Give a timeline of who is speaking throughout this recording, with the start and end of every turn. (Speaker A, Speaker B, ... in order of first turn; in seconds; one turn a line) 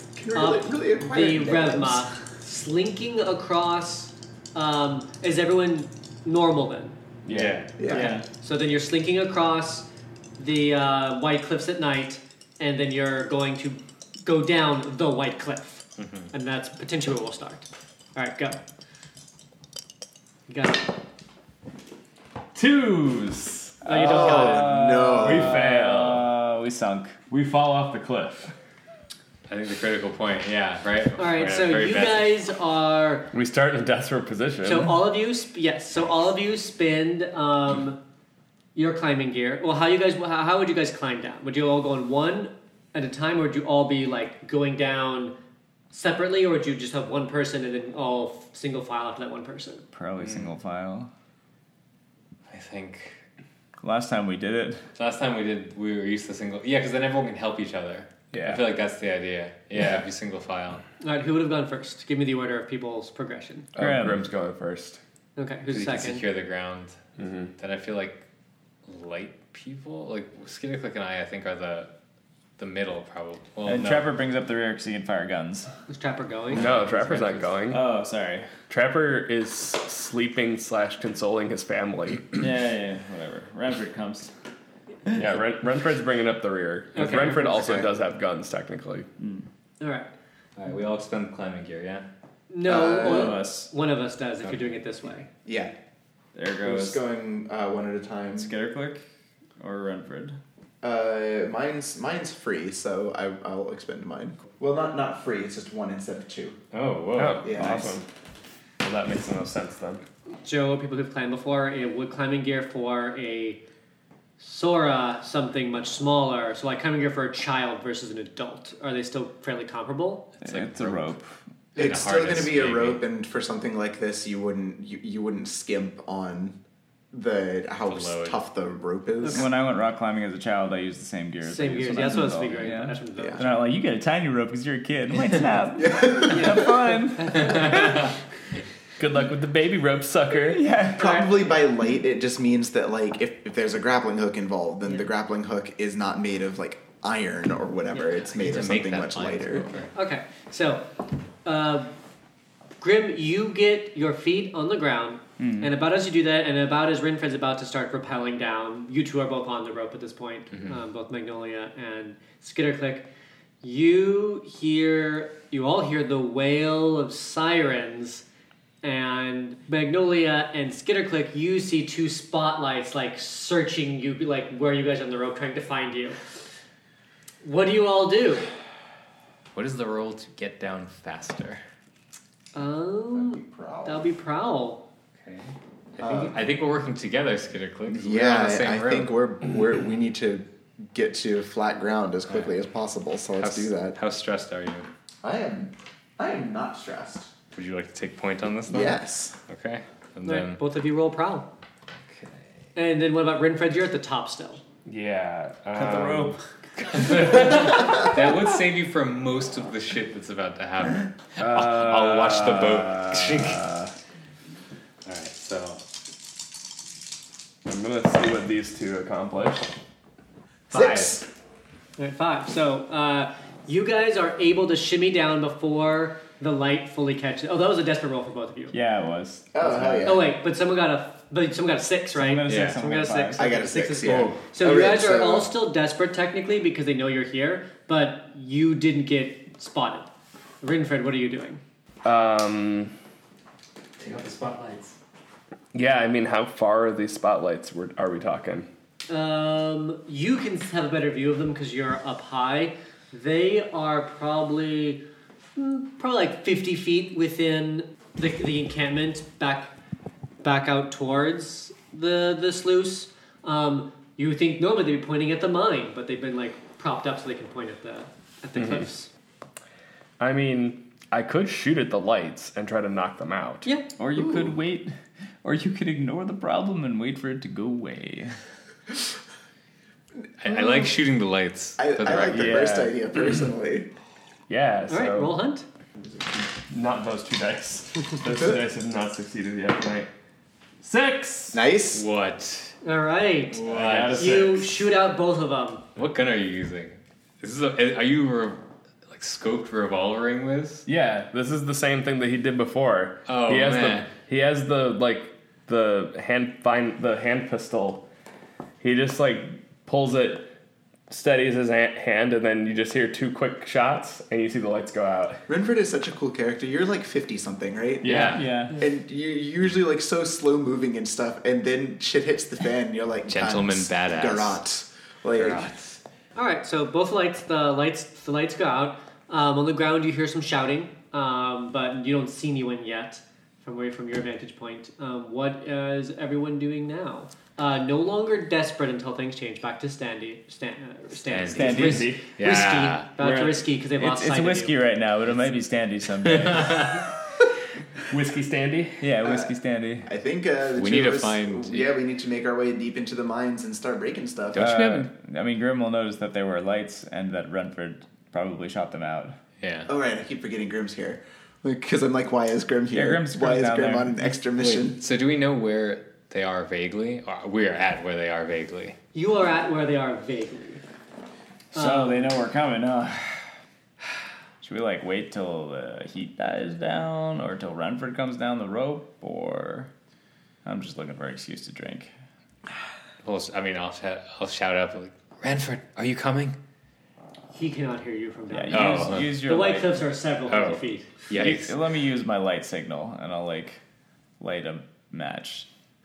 Speaker A: 0.2-2.0
Speaker B: 0.3-7.0
Speaker C: 7.2-7.7
Speaker D: 7.3-7.7
Speaker A: 7.8-8.2
Speaker B: 7.8-9.9
Speaker E: 7.9-8.2
Speaker B: 10.4-18.6
Speaker D: 16.0-16.3
Speaker B: 20.5-20.9
Speaker C: 22.6-24.4
Speaker B: 23.9-24.7
Speaker A: 24.0-25.6
Speaker E: 24.0-27.2
Speaker C: 25.0-26.4
Speaker C: 27.3-28.5
Speaker D: 29.5-32.4
Speaker B: 31.2-33.3
Speaker C: 33.3-35.1
Speaker B: 34.6-38.0
Speaker B: 38.8-45.3
Speaker B: 45.9-49.9
Speaker E: 49.9-51.1
Speaker D: 50.2-50.5
Speaker D: 52.5-53.2
Speaker E: 53.8-54.8
Speaker D: 55.0-60.8
Speaker C: 58.3-58.7
Speaker B: 61.0-63.7
Speaker C: 63.8-65.0
Speaker E: 63.8-64.3
Speaker B: 65.4-66.2
Speaker D: 65.7-68.2
Speaker C: 67.2-67.5
Speaker D: 68.9-71.9
Speaker D: 72.6-74.1
Speaker E: 73.7-75.7
Speaker B: 75.9-76.6
Speaker D: 76.5-77.6
Speaker C: 76.5-77.8
Speaker E: 77.7-78.6
Speaker C: 78.7-82.5
Speaker E: 82.4-84.3
Speaker E: 85.1-85.4
Speaker C: 85.1-89.1
Speaker B: 87.0-87.5
Speaker D: 87.0-87.4
Speaker A: 87.3-87.9
Speaker E: 89.2-89.5
Speaker B: 89.8-90.1
Speaker D: 90.6-92.1
Speaker B: 92.5-95.3
Speaker A: 92.6-93.4
Speaker E: 93.0-93.7
Speaker A: 95.5-95.7
Speaker E: 96.3-97.0
Speaker A: 96.6-98.5
Speaker E: 98.4-99.0
Speaker E: 99.6-100.4
Speaker A: 100.8-106.6
Speaker D: 106.7-107.5
Speaker C: 107.2-108.0
Speaker A: 107.4-107.9
Speaker E: 107.6-108.0
Speaker C: 108.8-110.0
Speaker B: 110.4-113.6
Speaker B: 114.4-120.3
Speaker E: 120.4-121.3
Speaker D: 120.5-121.1
Speaker D: 121.8-123.0
Speaker A: 121.8-126.6
Speaker A: 127.1-129.5
Speaker D: 127.8-128.4
Speaker E: 129.3-137.8
Speaker B: 131.4-133.6
Speaker A: 133.2-133.5
Speaker A: 135.8-136.7
Speaker B: 136.3-138.1
Speaker D: 137.4-138.1
Speaker C: 139.0-140.7
Speaker E: 140.5-141.3
Speaker A: 140.9-149.7
Speaker D: 148.2-149.9
Speaker B: 149.9-150.9
Speaker B: 151.4-151.9
Speaker B: 152.8-163.1
Speaker E: 155.4-155.7
Speaker B: 163.6-168.2
Speaker B: 168.8-176.2
Speaker B: 177.4-178.5
Speaker D: 179.5-181.6
Speaker B: 182.5-184.8
Speaker A: 183.1-184.1
Speaker D: 185.2-189.1
Speaker A: 186.0-186.4
Speaker A: 187.9-194.0
Speaker D: 192.3-192.6
Speaker D: 193.4-194.9
Speaker A: 195.2-197.3
Speaker D: 197.5-200.6
Speaker A: 198.7-199.3
Speaker B: 200.2-201.5
Speaker D: 202.1-202.5
Speaker B: 202.8-204.6
Speaker C: 204.8-206.4
Speaker E: 205.7-206.4
Speaker D: 206.8-213.7
Speaker C: 207.1-208.1
Speaker C: 211.4-213.9
Speaker D: 215.1-215.8
Speaker C: 217.7-219.8
Speaker A: 220.7-221.3
Speaker D: 220.7-221.1
Speaker B: 222.0-228.8
Speaker E: 228.7-230.1
Speaker A: 229.5-230.3
Speaker B: 230.1-240.1
Speaker E: 232.2-233.6
Speaker D: 232.5-232.8
Speaker A: 233.3-235.5
Speaker B: 240.6-241.6
Speaker C: 242.0-242.9
Speaker D: 244.0-245.0
Speaker C: 245.7-248.7
Speaker B: 249.1-255.0
Speaker B: 255.6-259.7
Speaker B: 260.4-269.1
Speaker C: 270.2-273.7
Speaker E: 274.0-274.9
Speaker A: 274.2-274.5
Speaker E: 275.4-278.4
Speaker D: 280.4-282.7
Speaker A: 280.5-280.9
Speaker A: 281.8-283.9
Speaker C: 282.3-283.5
Speaker C: 284.5-285.4
Speaker B: 284.9-285.6
Speaker C: 286.7-290.1
Speaker C: 290.8-291.6
Speaker A: 291.5-292.1
Speaker D: 291.9-292.8
Speaker B: 292.8-295.9
Speaker D: 293.5-294.3
Speaker C: 293.7-294.8
Speaker D: 296.0-300.9
Speaker C: 300.9-308.1
Speaker D: 303.3-304.1
Speaker C: 308.8-310.5
Speaker C: 311.1-315.5
Speaker A: 315.5-325.8
Speaker C: 318.0-318.6
Speaker D: 318.1-318.5
Speaker E: 318.1-318.8
Speaker D: 323.3-324.6
Speaker B: 326.4-344.8
Speaker D: 341.3-343.1
Speaker E: 341.6-342.2
Speaker C: 341.7-342.2
Speaker C: 343.2-343.7
Speaker E: 344.0-347.1
Speaker D: 346.3-347.0
Speaker C: 348.1-349.1
Speaker E: 349.0-350.1
Speaker A: 349.2-354.6
Speaker D: 350.7-351.9
Speaker D: 354.5-355.1
Speaker E: 354.6-359.4
Speaker D: 359.6-359.9
Speaker A: 359.9-365.0
Speaker E: 362.9-364.2
Speaker D: 364.6-369.0
Speaker B: 369.1-370.8
Speaker E: 371.7-373.5
Speaker B: 371.7-372.3
Speaker E: 374.6-379.9
Speaker E: 380.6-382.1
Speaker D: 383.2-386.6
Speaker B: 387.6-391.1
Speaker E: 388.5-390.1
Speaker D: 388.7-389.4
Speaker D: 390.5-391.8
Speaker E: 391.3-393.8
Speaker E: 394.4-395.7